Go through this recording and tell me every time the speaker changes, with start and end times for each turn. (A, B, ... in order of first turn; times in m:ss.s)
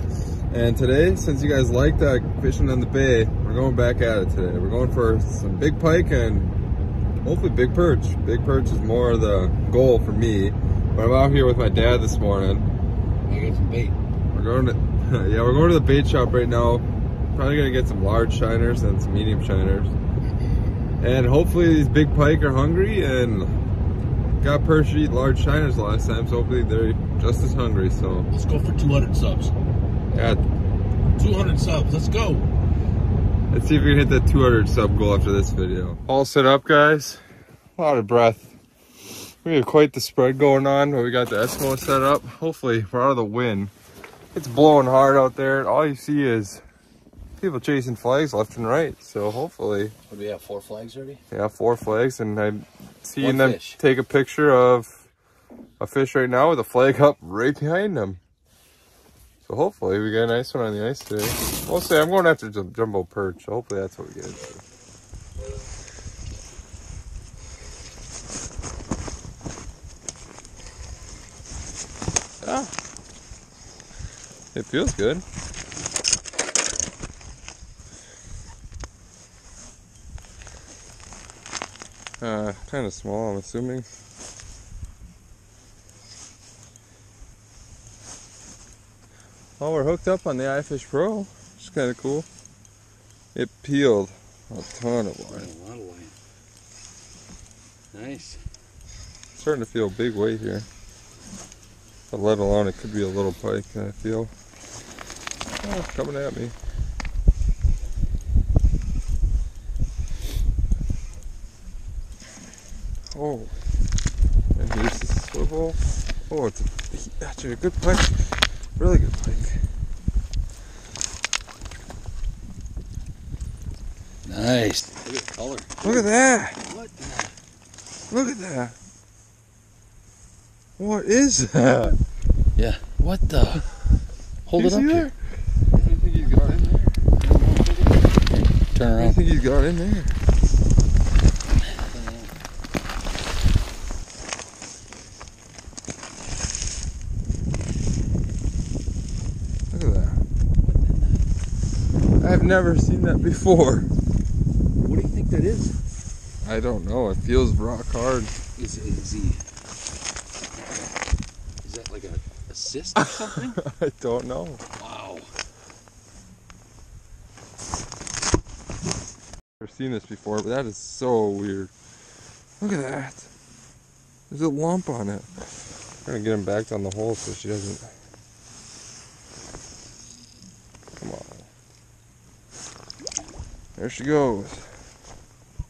0:00.5-0:06.6 A
0:07.2-0:12.7 A
0:13.2-0:14.0 B
0:14.3-0:19.9 A
0:21.0-0:23.6 A
0:24.4-0:28.3 A
0:28.3-0:29.5 B
0:30.1-0:30.4 A
0:31.1-0:32.5 B
0:33.5-0:37.2 A
0:37.8-0:38.5 A
0:39.4-0:43.7 A
0:44.3-0:46.6 A
0:47.4-0:49.9 A
0:50.1-0:51.2 B
0:51.3-0:55.0 A
0:53.2-0:53.8 B
0:55.8-0:58.2 A
0:59.4-1:04.6 A
1:12.4-1:12.7 A
1:14.5-1:15.2 A
1:22.2-1:23.8 A
1:29.6-1:32.2 A
1:33.3-1:35.5 A
1:35.3-1:36.1 B
1:37.9-1:38.4 B
1:39.3-1:40.6 A
1:42.1-1:44.3 A
1:45.6-1:46.5 A
1:53.1-1:53.5 A
1:54.6-1:59.6 A
2:04.2-2:06.1 B
2:05.8-2:06.6 A
2:06.6-2:07.4 B
2:08.1-2:08.7 A
2:10.8-2:12.0 A
2:12.6-2:13.7 B
2:14.4-2:15.1 B
2:14.5-2:15.1 A
2:15.7-2:16.4 B
2:15.8-2:17.0 A
2:17.2-2:17.9 B
2:18.7-2:19.2 B
2:19.0-2:20.2 A
2:21.8-2:22.3 B
2:29.7-2:30.2 A
2:30.6-2:31.2 B
2:32.2-2:33.9 A
2:34.8-2:35.7 B
2:36.4-2:38.3 A
2:38.6-2:39.4 B
2:41.6-2:43.5 B
2:43.0-2:44.6 A
2:44.8-2:45.3 B
2:49.6-2:51.7 A
2:52.6-2:53.3 A
2:54.3-2:55.3 A
2:56.0-2:57.9 A
3:01.0-3:01.5 A
3:03.8-3:04.7 A